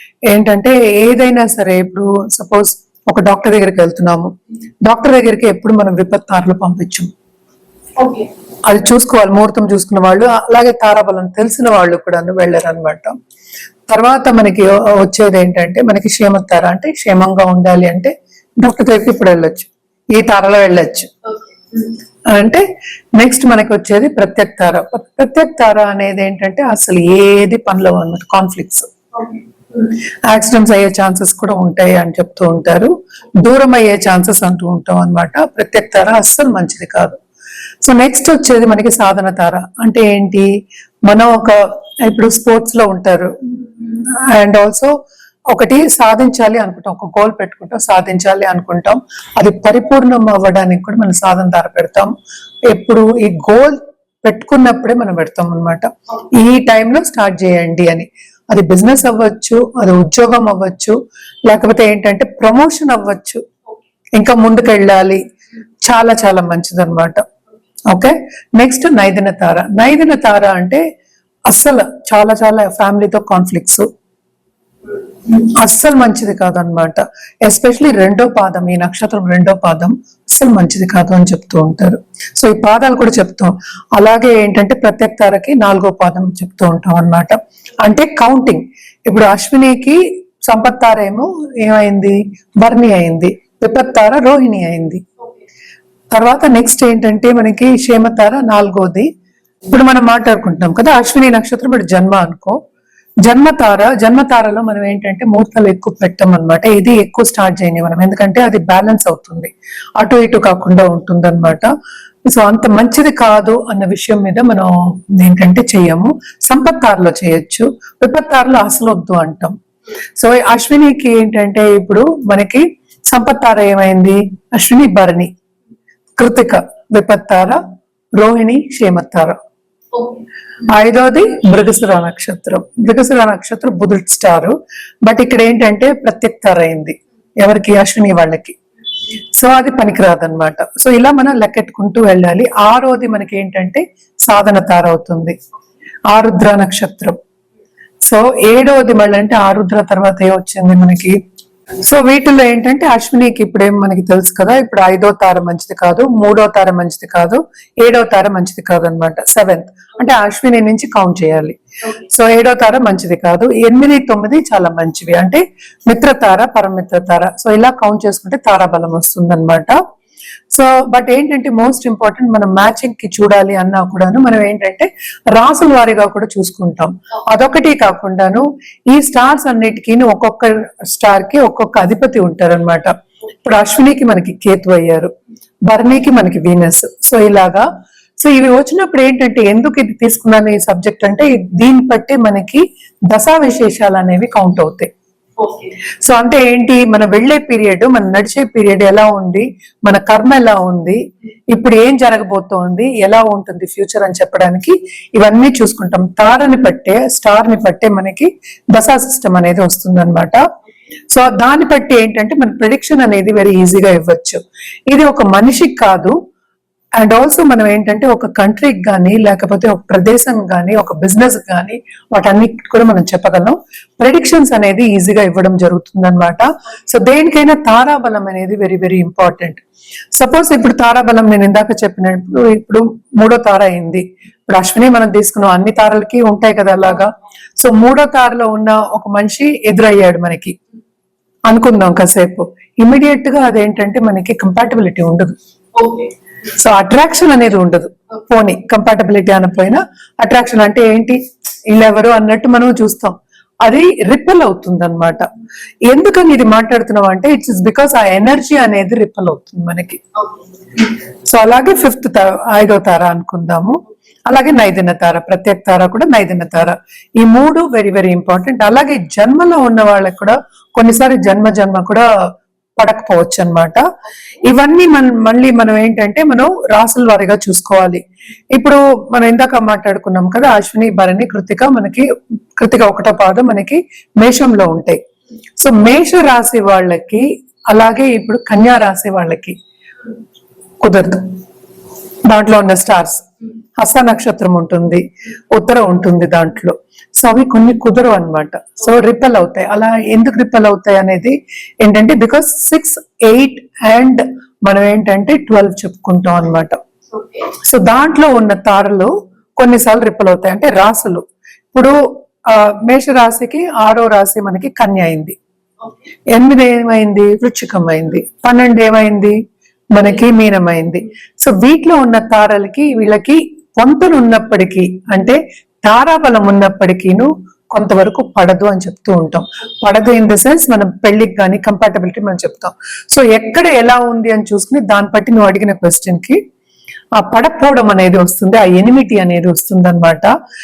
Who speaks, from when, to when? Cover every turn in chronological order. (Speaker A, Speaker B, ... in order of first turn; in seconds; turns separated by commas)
Speaker A: 0.3-4.3, Speaker A: 4.8-7.1, Speaker B: 8.0-8.3, Speaker A: 8.7-13.1, Speaker A: 13.9-21.1, Speaker B: 21.3-21.9, Speaker A: 22.3-22.6, Speaker A: 23.2-28.9, Speaker B: 29.1-29.9, Speaker A: 30.3-37.2, Speaker A: 37.8-40.5, Speaker A: 41.1-44.9, Speaker A: 45.5-52.1, Speaker A: 52.7-61.0, Speaker A: 61.5-63.4, Speaker A: 64.2-65.2, Speaker A: 65.9-67.2, Speaker A: 67.9-70.8, Speaker A: 71.5-73.8, Speaker A: 75.4-95.0, Speaker A: 96.1-99.1, Speaker A: 99.7-102.6, Speaker A: 103.2-111.7, Speaker A: 112.3-119.5, Speaker A: 120.2-125.3, Speaker A: 126.2-127.6, Speaker A: 128.2-129.4, Speaker B: 129.9-130.2, Speaker A: 130.7-134.5, Speaker A: 135.1-138.6, Speaker A: 139.4-145.3, Speaker A: 146.1-147.2, Speaker A: 148.1-151.1, Speaker A: 151.8-161.6, Speaker B: 161.8-162.1, Speaker A: 162.1-169.8, Speaker A: 170.5-182.9, Speaker A: 183.4-185.1, Speaker A: 185.7-187.7, Speaker A: 188.2-194.9, Speaker B: 195.4-195.7, Speaker A: 196.0-201.0, Speaker A: 201.5-210.4, Speaker A: 211.1-214.4, Speaker A: 214.9-216.1, Speaker A: 217.0-229.6, Speaker A: 230.2-240.6, Speaker A: 241.5-245.3, Speaker B: 245.7-246.1, Speaker A: 246.6-251.2, Speaker A: 251.7-255.2, Speaker A: 255.9-260.0, Speaker B: 260.2-260.9, Speaker A: 261.3-272.1, Speaker A: 272.8-273.8, Speaker A: 274.4-278.0, Speaker A: 278.5-282.0, Speaker A: 282.6-285.0, Speaker A: 285.6-289.5, Speaker A: 290.8-291.2, Speaker A: 292.3-293.2, Speaker A: 293.8-306.8, Speaker B: 307.1-307.5, Speaker A: 307.6-311.2, Speaker A: 312.5-315.4, Speaker B: 315.8-316.1, Speaker A: 316.3-319.4, Speaker A: 319.9-336.4, Speaker A: 337.2-340.3